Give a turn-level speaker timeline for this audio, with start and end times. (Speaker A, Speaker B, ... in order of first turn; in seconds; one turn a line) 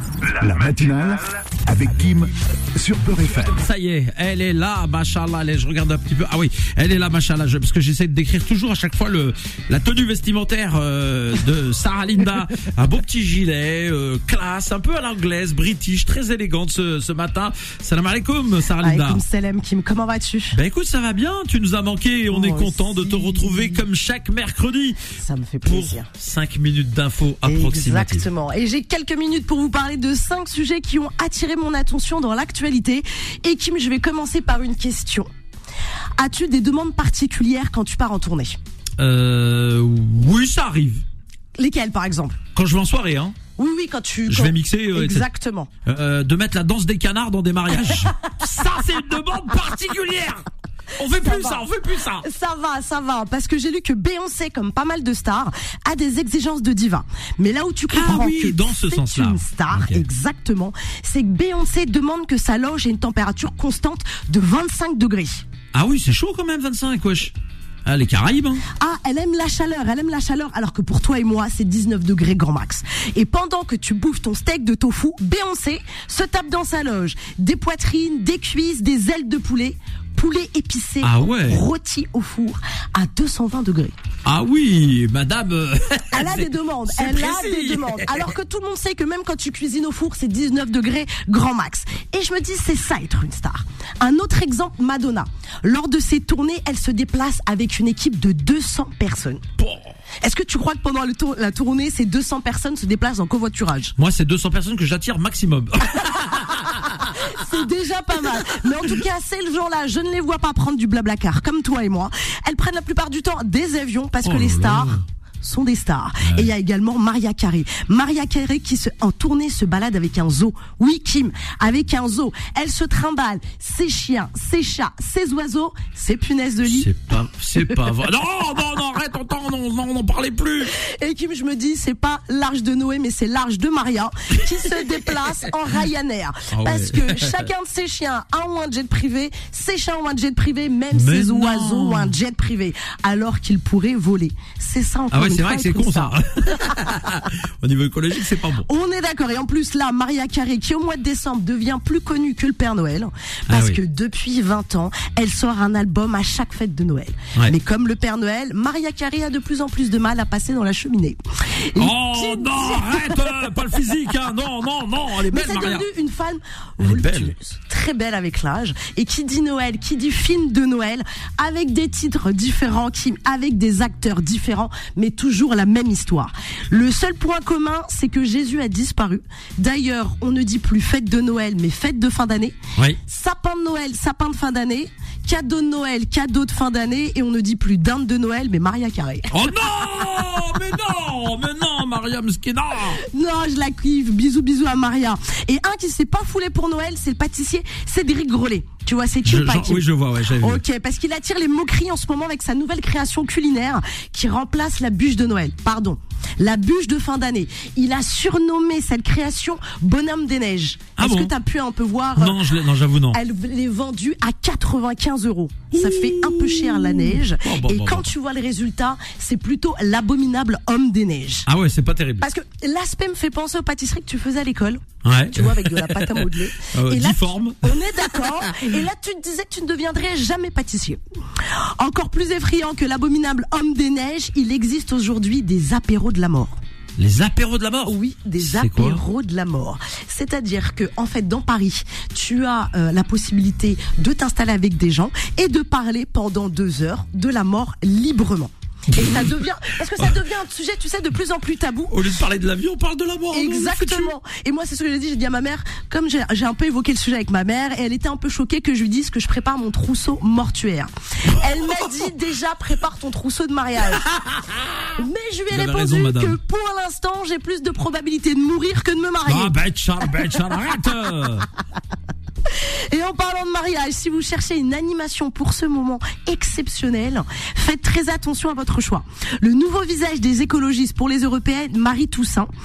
Speaker A: 0.2-3.6
Speaker B: 3.5-19.2
Speaker C: 18.8-20.6
Speaker B: 20.5-25.0
Speaker C: 22.3-23.8
Speaker C: 25.2-26.1
Speaker B: 25.6-28.3
Speaker C: 27.4-35.3
Speaker C: 36.2-38.6
Speaker B: 39.0-41.0
Speaker C: 41.6-42.4
Speaker B: 42.5-43.4
Speaker C: 43.6-45.7
Speaker B: 44.3-45.3
Speaker B: 45.9-50.5
Speaker B: 51.0-52.3
Speaker C: 51.0-65.5
Speaker B: 57.9-60.0
Speaker B: 65.7-67.3
Speaker B: 67.9-68.7
Speaker C: 68.7-84.0
Speaker B: 81.0-81.6
Speaker B: 84.3-88.3
Speaker C: 86.1-99.4
Speaker B: 99.6-100.0
Speaker C: 100.2-104.0
Speaker B: 104.0-107.2
Speaker C: 107.0-126.9
Speaker B: 114.2-115.0
Speaker B: 116.2-116.5
Speaker B: 126.7-130.7
Speaker C: 130.7-146.2
Speaker B: 136.5-137.5
Speaker B: 140.9-142.2
Speaker B: 145.1-148.7
Speaker C: 148.6-163.5
Speaker B: 153.5-153.8
Speaker B: 161.8-165.9
Speaker C: 165.3-189.3
Speaker B: 166.8-167.3
Speaker B: 189.3-193.0
Speaker C: 193.0-199.9
Speaker B: 199.2-200.6
Speaker C: 200.4-212.6
Speaker B: 211.0-211.3
Speaker B: 212.2-213.2
Speaker C: 213.1-221.5
Speaker B: 215.8-218.1
Speaker B: 221.5-222.3
Speaker C: 222.2-236.6
Speaker B: 225.1-227.7
Speaker B: 237.0-239.0
Speaker C: 237.9-251.9
Speaker B: 248.9-249.3
Speaker B: 251.9-254.1
Speaker C: 253.3-264.1
Speaker B: 264.3-264.8
Speaker C: 265.0-269.6
Speaker B: 265.5-266.4
Speaker B: 269.3-271.5
Speaker C: 272.5-282.5